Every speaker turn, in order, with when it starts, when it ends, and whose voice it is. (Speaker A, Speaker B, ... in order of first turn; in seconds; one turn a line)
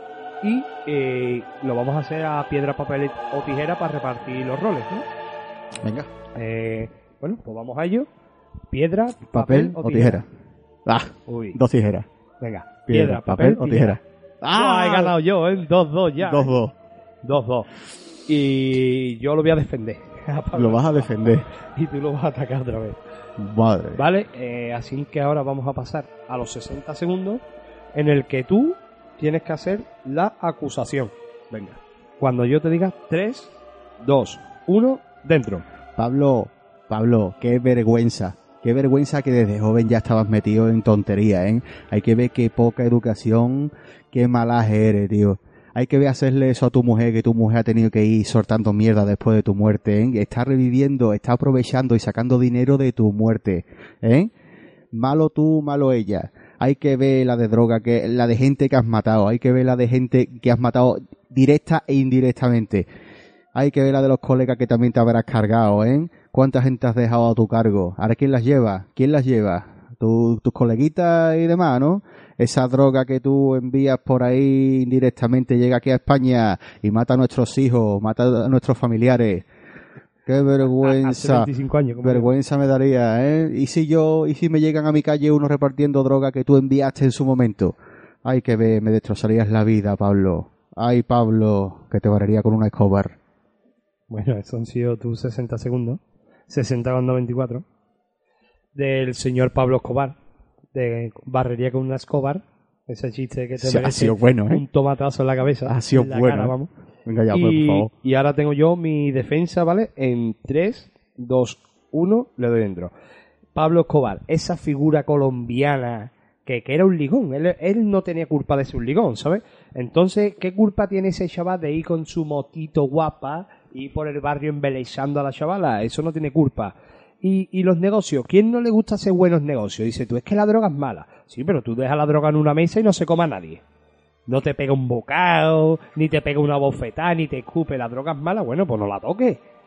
Speaker A: 0.4-5.1
Speaker B: 5.8-6.1
Speaker A: 6.3-8.1
Speaker A: 8.7-10.2
Speaker B: 9.3-10.3
Speaker B: 10.9-12.1
Speaker A: 11.3-11.6
Speaker A: 12.4-14.0
Speaker B: 12.9-15.1
Speaker A: 14.5-16.6
Speaker B: 16.2-16.7
Speaker A: 17.2-17.7
Speaker A: 18.3-23.0
Speaker B: 20.5-21.5
Speaker B: 23.4-24.0
Speaker A: 24.0-27.4
Speaker A: 27.9-35.6
Speaker B: 36.0-54.3
Speaker B: 54.9-62.9
Speaker B: 63.5-79.5
Speaker B: 80.3-81.5
Speaker A: 80.7-82.3
Speaker B: 82.0-93.2
Speaker A: 94.1-97.6
Speaker A: 98.8-100.2
Speaker A: 100.7-106.7
Speaker B: 103.6-104.6
Speaker B: 105.7-107.9
Speaker A: 107.3-112.9
Speaker A: 113.5-133.6
Speaker A: 134.3-139.4